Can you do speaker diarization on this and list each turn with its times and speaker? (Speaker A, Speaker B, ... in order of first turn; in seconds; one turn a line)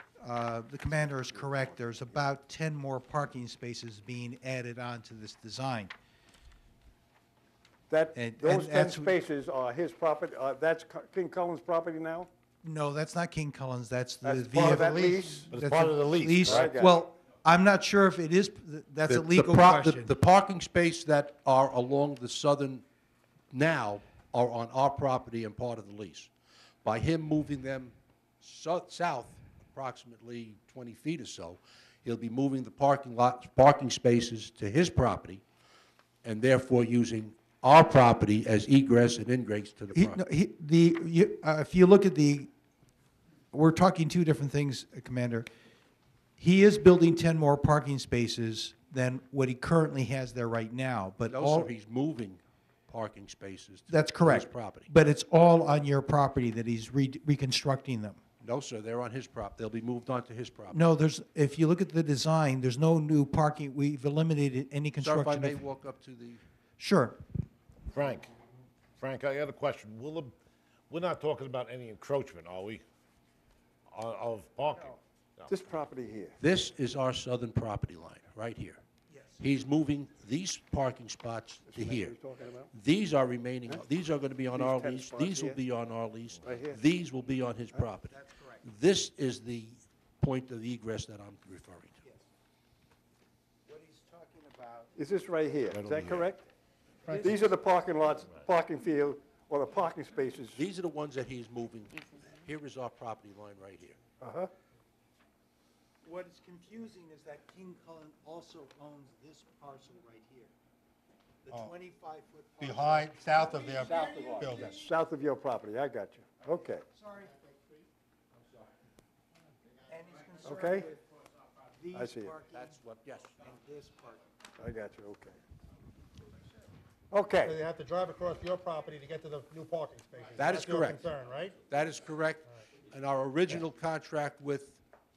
Speaker A: 0.2-5.9
Speaker B: 7.9-12.3
Speaker A: 8.2-9.1
Speaker A: 12.6-20.1
Speaker B: 14.2-15.5
Speaker C: 14.8-15.2
Speaker D: 15.5-16.7
Speaker B: 16.4-16.9
Speaker E: 19.1-22.9
Speaker E: 23.5-26.3
Speaker E: 26.8-35.4
Speaker E: 36.2-40.2
Speaker A: 39.9-42.5
Speaker A: 43.5-45.5
Speaker A: 46.4-51.7
Speaker E: 51.3-54.9
Speaker A: 53.9-58.2
Speaker E: 58.4-60.9
Speaker A: 60.7-65.6
Speaker E: 65.0-66.4
Speaker A: 66.8-67.2
Speaker D: 67.9-68.3
Speaker D: 69.0-70.4
Speaker D: 70.9-72.8
Speaker D: 73.9-75.6
Speaker B: 75.5-76.4
Speaker E: 76.4-78.8
Speaker A: 79.1-79.4
Speaker E: 79.4-82.2
Speaker B: 81.7-82.7
Speaker E: 82.7-92.0
Speaker B: 84.5-85.6
Speaker B: 86.5-86.8
Speaker A: 88.1-88.6
Speaker A: 93.7-95.0
Speaker B: 95.0-96.5
Speaker D: 95.7-96.3
Speaker A: 97.0-97.5
Speaker B: 97.1-100.6
Speaker E: 100.5-104.0
Speaker B: 104.2-104.5
Speaker A: 106.0-110.5
Speaker A: 111.5-114.7
Speaker C: 112.6-114.8
Speaker B: 113.8-116.8
Speaker A: 116.9-117.6
Speaker A: 119.9-121.1
Speaker B: 120.4-120.9
Speaker A: 121.8-122.8
Speaker B: 121.9-122.3
Speaker E: 122.5-123.4
Speaker A: 123.4-124.3
Speaker B: 124.6-125.4
Speaker B: 127.1-127.5
Speaker C: 127.4-131.6
Speaker E: 130.4-131.0
Speaker E: 131.7-134.8